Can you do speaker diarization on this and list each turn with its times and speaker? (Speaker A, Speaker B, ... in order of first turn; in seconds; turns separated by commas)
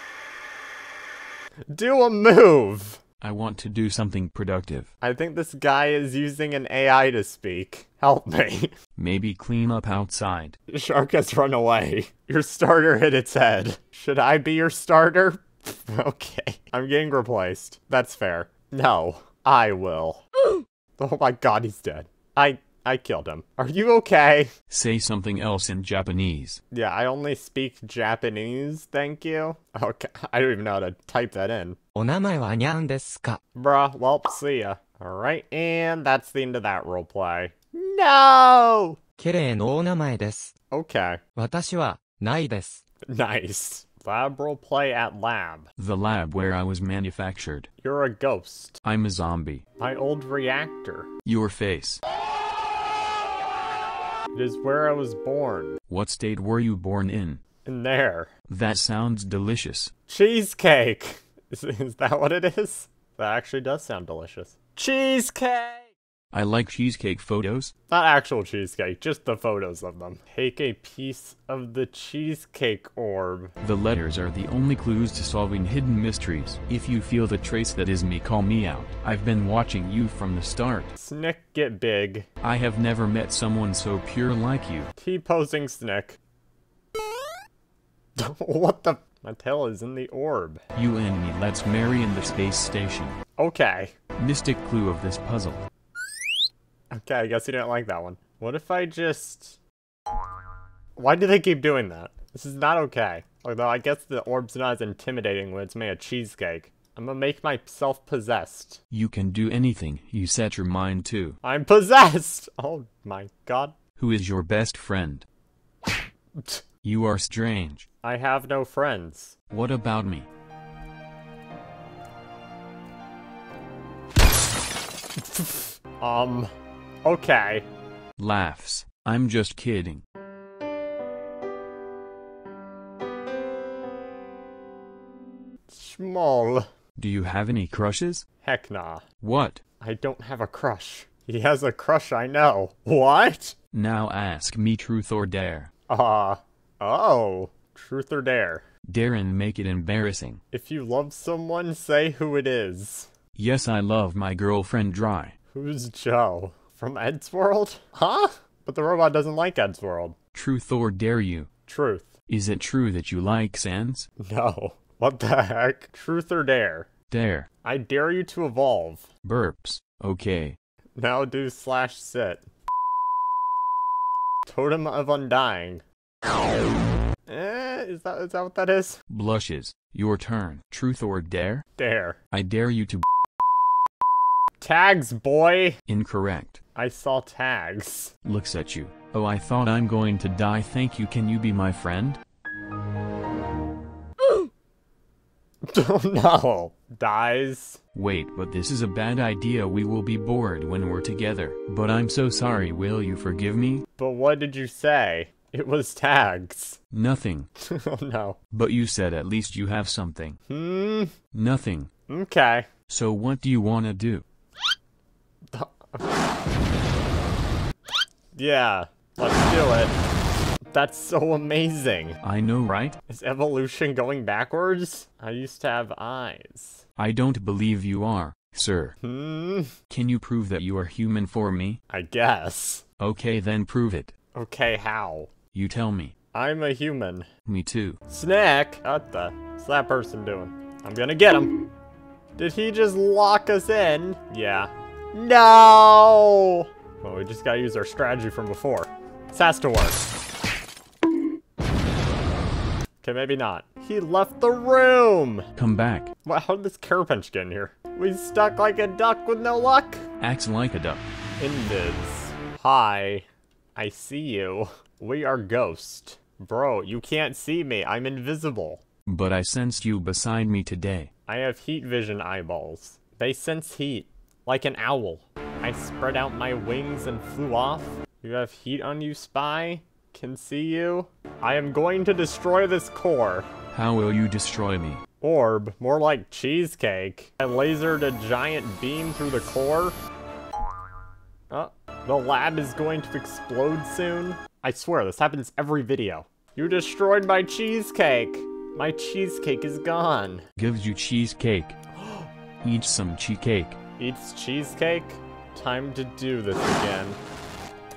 Speaker A: 1.7-3.0, Speaker B: 3.2-4.9, Speaker A: 5.0-8.7, Speaker B: 9.0-10.6, Speaker A: 10.7-20.2, Speaker A: 21.0-24.5, Speaker B: 24.7-26.6, Speaker A: 26.7-31.8, Speaker C: 31.9-33.4, Speaker A: 33.5-39.0, Speaker C: 39.2-40.5, Speaker A: 40.7-41.2, Speaker C: 41.4-42.8, Speaker A: 43.1-45.7, Speaker B: 45.8-47.7, Speaker A: 47.8-48.8, Speaker B: 48.8-49.6, Speaker A: 49.8-51.1, Speaker B: 51.2-52.0, Speaker A: 54.3-55.8, Speaker B: 55.9-57.4, Speaker A: 57.6-58.3, Speaker B: 58.5-59.9, Speaker A: 60.1-65.9, Speaker B: 66.3-67.7, Speaker A: 67.9-73.5, Speaker B: 73.6-80.9, Speaker A: 81.0-82.3, Speaker B: 82.4-84.9, Speaker A: 85.0-86.2, Speaker A: 88.2-90.6, Speaker B: 90.7-93.2, Speaker A: 93.4-93.9, Speaker B: 94.2-95.6, Speaker A: 96.9-99.6, Speaker A: 101.0-108.8, Speaker B: 108.9-111.4, Speaker A: 111.4-113.7, Speaker B: 114.0-115.2, Speaker A: 116.4-116.6, Speaker B: 116.8-117.9, Speaker A: 118.0-119.3, Speaker B: 119.5-120.3, Speaker A: 125.2-126.5, Speaker A: 127.0-127.6, Speaker B: 128.2-130.0, Speaker A: 135.7-136.7, Speaker B: 137.0-138.2, Speaker A: 138.4-139.0, Speaker B: 139.2-139.6, Speaker A: 139.8-143.6, Speaker B: 143.7-145.7, Speaker A: 145.9-148.7, Speaker B: 148.9-150.4, Speaker A: 150.5-153.1, Speaker B: 153.3-155.3, Speaker A: 155.5-160.1, Speaker B: 160.3-161.5, Speaker A: 161.7-162.1, Speaker B: 162.3-164.1, Speaker A: 164.2-166.9, Speaker B: 167.1-167.5, Speaker A: 167.6-169.1, Speaker B: 169.2-170.6, Speaker A: 171.0-172.4, Speaker A: 174.5-175.8, Speaker A: 177.3-179.0, Speaker B: 179.1-181.6, Speaker A: 181.8-182.2, Speaker B: 182.3-183.0, Speaker A: 184.6-185.8, Speaker B: 185.9-186.6, Speaker A: 186.7-188.1, Speaker B: 188.2-192.2, Speaker A: 195.7-197.8, Speaker B: 197.9-203.8, Speaker A: 204.0-206.8, Speaker B: 206.9-207.5, Speaker A: 207.6-208.4, Speaker B: 208.5-210.4, Speaker A: 210.5-211.2, Speaker B: 211.3-211.9, Speaker A: 212.1-212.7, Speaker B: 212.9-214.2, Speaker A: 215.5-216.2, Speaker A: 218.3-219.9, Speaker A: 220.7-222.2, Speaker B: 222.2-223.0, Speaker A: 223.1-226.8, Speaker B: 227.0-228.9, Speaker A: 229.0-229.7, Speaker B: 229.9-231.8, Speaker A: 231.9-232.8, Speaker B: 233.0-234.1, Speaker A: 234.3-235.3, Speaker B: 235.5-236.1, Speaker A: 236.3-237.3, Speaker B: 237.4-238.0, Speaker A: 238.1-241.5, Speaker A: 242.4-250.1, Speaker A: 253.0-255.5, Speaker B: 255.6-256.1, Speaker A: 256.2-260.1, Speaker B: 260.2-261.1, Speaker A: 261.4-268.8, Speaker B: 269.1-271.1, Speaker A: 271.3-283.5, Speaker B: 283.7-285.0, Speaker A: 285.2-290.0, Speaker A: 291.5-300.4, Speaker B: 300.6-301.8, Speaker B: 302.6-303.8, Speaker A: 304.0-307.2